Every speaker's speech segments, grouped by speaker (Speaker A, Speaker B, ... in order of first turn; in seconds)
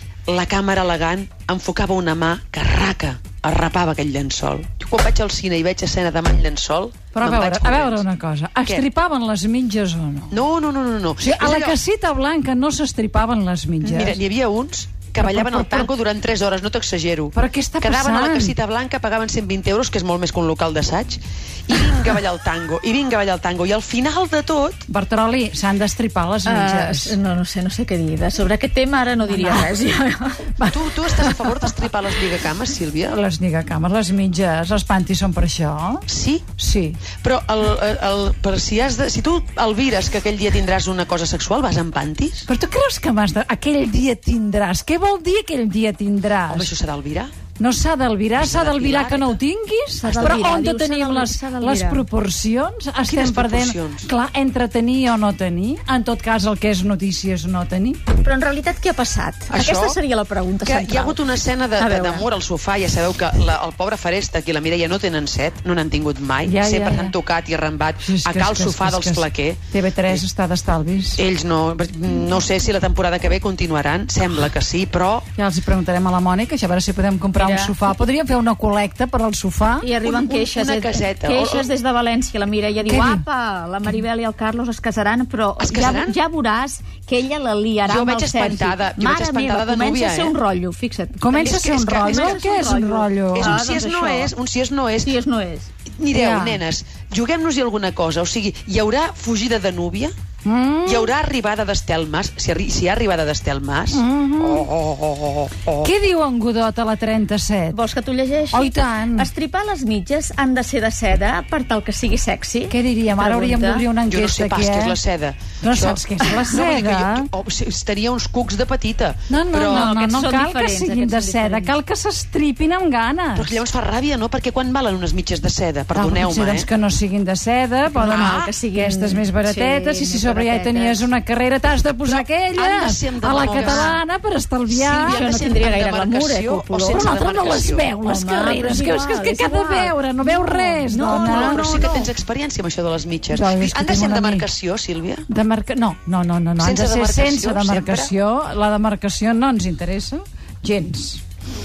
Speaker A: 0.3-8.0, 10.3-11.8, 13.8-24.9, 30.7-33.1, 36.1-36.5, 37.2-42.5, 46.5-47.3, 48.4-49.4, 50.0-50.5, 53.0-54.1, 59.5-60.0, 60.6-70.2, 71.2-75.3, 80.0-81.7, 85.6-86.2, 87.8-90.3, 91.4-92.4, 93.3-95.1, 96.0-100.1, 100.8-105.9, 114.0-119.9, 123.3-126.7, 128.0-128.5, 132.0-134.0, 134.7-137.9, 141.0-145.3, 146.6-148.1
Speaker B: 7.1-10.4, 11.2-14.2, 15.2-15.9, 17.3-18.5, 24.9-27.1, 29.3-29.7, 30.6-31.8, 33.1-36.0, 36.6-37.0, 42.5-46.7, 47.6-58.0, 66.4-67.1, 68.0-71.2, 75.3-79.9, 82.8-83.2, 91.2-93.6, 96.1-96.6, 100.4-101.1, 103.9-104.7, 105.8-107.8, 108.5-109.3, 112.7-115.0, 115.6-117.3, 119.3-123.6, 125.9-135.3, 136.9-141.9, 143.3-144.5, 145.3-151.2
Speaker C: 26.4-30.4, 50.0-52.0, 58.2-61.2, 61.8-62.3, 77.3-77.9, 79.8-94.3, 95.0-95.7, 107.7-113.8, 119.6-121.7, 127.9-131.1, 133.3-134.0, 135.0-137.2, 138.0-142.1